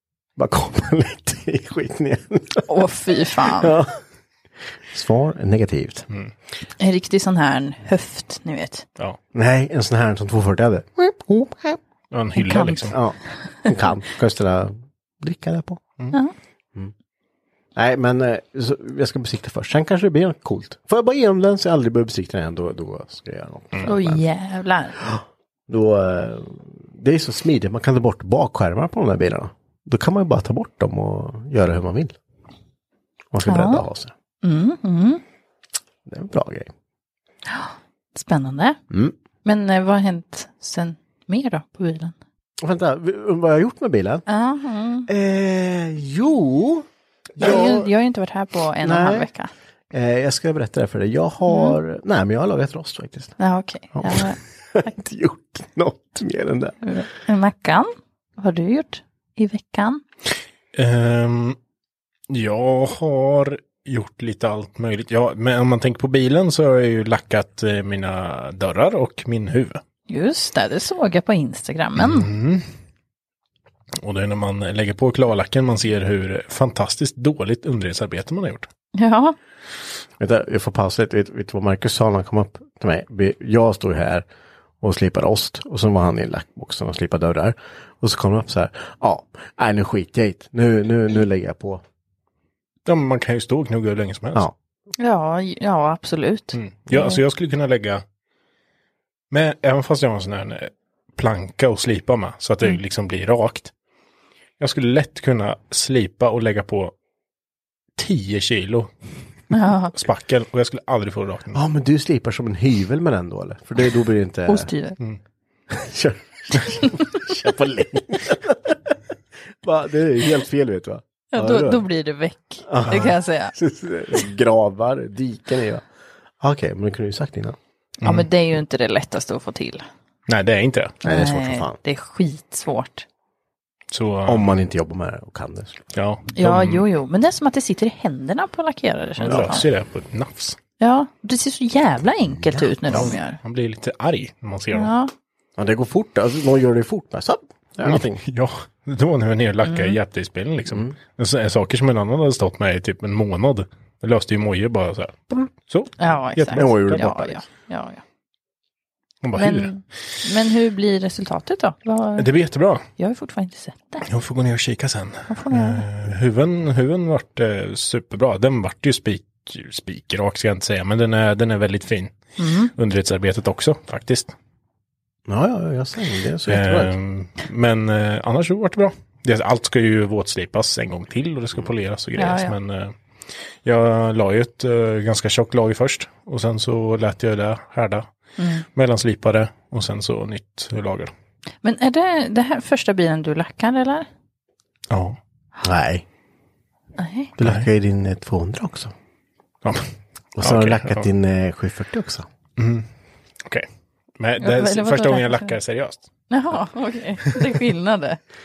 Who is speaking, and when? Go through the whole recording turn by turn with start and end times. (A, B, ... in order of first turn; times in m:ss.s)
0:00.4-0:04.0 A
0:02.7-0:03.7 B
0:04.9-0:06.0 A
0:06.8-0:08.8 B
0:09.3-0:11.8 A
0:12.1-0:13.0 C
0:12.4-0:12.9 B
0:12.9-0:15.8 A
0:17.8-0:24.2 A
0:23.8-0:25.0 B
0:25.0-0:32.1 A
0:33.3-0:34.1 A
0:33.4-0:33.8 B
0:34.4-0:35.2 B
0:36.0-0:36.7 A
0:37.5-0:38.8 B
0:38.9-0:39.1 A
0:39.4-0:42.1 B
0:42.6-0:44.2 A
0:44.3-0:45.1 B
0:45.1-0:47.9 A
0:47.4-0:49.5 B
0:48.8-0:49.3 A
0:49.9-0:53.4 A
0:51.5-0:51.8 B
0:53.4-0:54.4 B
0:53.9-0:56.8 A
0:56.8-1:00.0 B
1:00.7-1:01.6 C
1:02.3-1:09.8 C
1:10.1-1:12.3 B
1:12.0-1:12.6 C
1:14.0-1:18.7 C
1:18.9-1:19.4 B
1:20.2-1:24.2 A
1:24.8-1:31.8 A
1:32.8-1:34.5 C
1:35.0-1:37.2 B
1:36.5-1:38.0 C
1:39.3-1:43.7 C
1:44.6-1:46.9 C
1:48.0-1:48.9 C
1:49.5-1:49.9 B
1:49.9-1:51.6 C
1:51.5-1:54.7 A
1:54.5-1:55.0 B
1:55.7-1:59.0 A
1:59.6-2:01.8 A
2:01.3-2:03.5 B
2:02.6-2:05.8 A
2:06.4-2:07.6 A
2:08.0-2:08.3 C
2:08.0-2:09.8 B
2:10.3-2:11.0 C
2:11.0-2:11.8 A
2:11.0-2:13.0 B
2:13.9-2:14.5 C
2:14.2-2:15.8 A
2:15.9-2:16.8 C
2:16.3-2:19.6 B
2:19.2-2:20.6 C
2:19.3-2:19.5 A
2:20.8-2:23.4 B
2:22.9-2:24.9 C
2:24.7-2:25.1 B
2:25.6-2:28.2 A
2:27.8-2:37.0 C
2:29.6-2:30.0 B
2:30.7-2:31.0 A
2:36.0-2:38.0 B
2:36.5-2:37.4 A
2:39.2-2:39.7 C
2:39.4-2:42.3 B
2:42.2-2:42.8 C
2:43.0-2:44.0 B
2:44.0-2:52.1 C
2:45.3-2:45.8 B
2:52.4-2:52.7 B
2:52.7-2:54.3 C
2:55.3-2:56.9 A
2:56.5-3:02.9 C
3:02.2-3:02.6 B
3:03.6-3:08.1 C
3:08.4-3:08.6 B
3:08.7-3:11.1 C
3:11.6-3:14.1 B
3:14.9-3:15.2 C
3:15.6-3:16.0 A
3:17.0-3:17.3 B
3:17.4-3:18.9 A
3:17.4-3:17.7 C
3:20.4-3:22.3 A
3:20.4-3:21.1 C
3:22.6-3:22.9 C
3:24.2-3:26.0 C
3:24.4-3:25.5 B
3:26.3-3:28.2 B